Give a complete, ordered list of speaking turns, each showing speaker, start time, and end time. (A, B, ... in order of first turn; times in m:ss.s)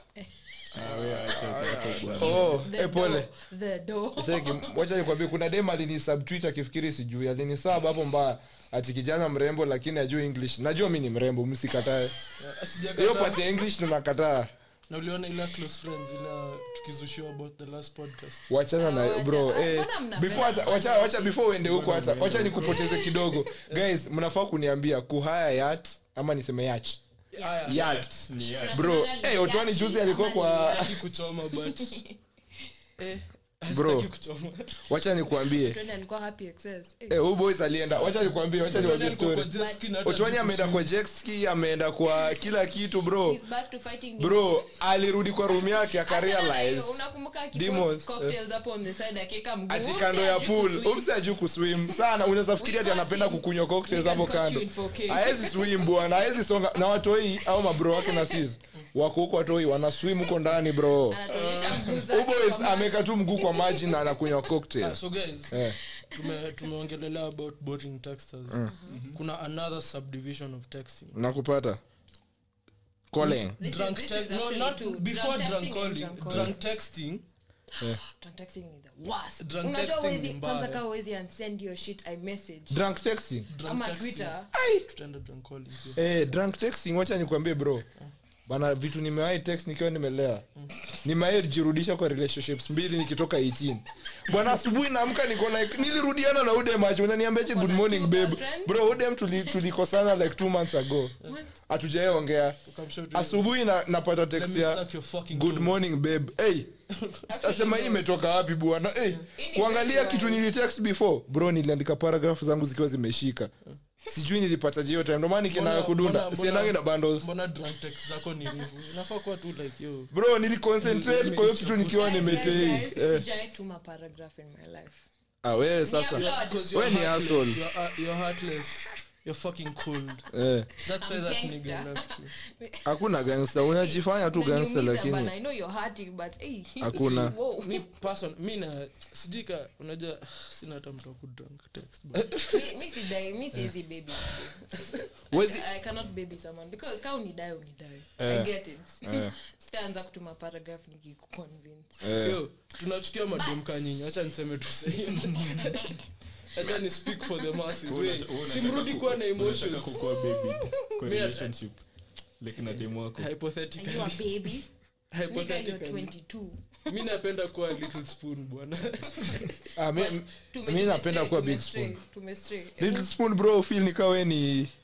0:00.7-0:02.6 A
0:00.8-0:03.3 B
0:00.9-0:02.5 C
0:02.2-0:04.8 D
0:04.2-0:12.2 B
0:12.4-0:13.4 C
0:12.9-0:14.5 B
0:14.9-0:18.5 C
0:18.5-0:27.0 B
0:18.8-0:21.4 D
0:21.6-0:23.0 A
0:22.6-0:23.5 D
0:27.3-0:28.0 C
0:27.4-0:27.7 D
0:27.6-0:28.2 B
0:27.6-0:28.8 A
0:28.4-0:31.0 D
0:28.7-0:31.0 B
0:30.4-0:32.0 C
0:31.6-0:32.2 D
0:33.0-0:34.8 C
0:33.7-0:34.1 B
0:34.9-0:35.8 B
0:35.4-0:37.2 D
0:37.1-0:43.4 B
0:37.9-0:39.1 A
0:38.7-0:40.9 C
0:39.5-0:39.8 D
0:43.2-0:44.6 D
0:44.2-0:47.0 B
0:46.0-0:51.1 D
0:47.5-0:48.4 B
0:49.7-1:01.2 B
0:52.6-0:56.1 D
0:57.7-0:58.4 D
1:01.1-1:04.5 D
1:01.3-1:02.0 A
1:01.8-1:05.8 B
1:04.8-1:11.2 C
1:08.6-1:09.0 D
1:08.9-1:09.2 A
1:11.1-1:11.8 B
1:13.1-1:13.6 B
1:13.2-1:17.2 C
1:13.6-1:16.6 D
1:17.8-1:22.8 D
1:19.4-1:20.8 C
1:22.7-1:23.5 B
1:23.5-1:26.0 C
1:23.6-1:24.5 D
1:24.5-1:24.9 B
1:25.9-1:27.8 B
1:28.5-1:30.4 B
1:31.0-1:41.2 B
1:37.5-1:39.6 D
1:41.2-1:41.6 D
1:41.7-1:42.6 B
1:42.6-1:43.5 C
1:43.1-1:46.8 B
1:44.3-1:45.8 C
1:46.9-1:47.8 C
1:47.3-1:48.0 D
1:47.4-1:53.5 B
1:49.3-1:50.4 D
1:54.1-1:57.3 B
1:55.5-2:00.1 C
2:00.1-2:03.2 B
2:00.8-2:02.9 C
2:01.9-2:05.1 D
2:05.4-2:07.6 B
2:05.8-2:06.8 D
2:06.1-2:10.3 C
2:10.3-2:10.7 B
2:10.8-2:12.3 C
2:10.9-2:12.9 D
2:12.8-2:15.3 B
2:13.6-2:17.9 D
2:16.8-2:17.3 B
2:17.0-2:22.5 C
2:22.2-2:22.4 B
2:22.5-2:32.2 D
2:25.3-2:25.6 B
2:28.2-2:28.5 B
2:29.0-2:29.3 B
2:32.0-2:32.4 B
2:32.2-2:36.0 C
2:33.3-2:33.9 D
2:35.3-2:35.6 A
2:36.5-2:40.0 C
2:37.8-2:41.8 A
2:40.0-2:40.8 D
2:41.0-2:41.5 C
2:42.4-2:43.3 A
2:42.7-2:44.5 C
2:43.8-2:44.7 D
2:45.1-2:46.1 C
2:45.3-2:46.9 D
2:46.9-2:49.5 C
2:49.2-2:53.1 D
2:49.8-2:52.0 B
2:52.8-2:54.7 B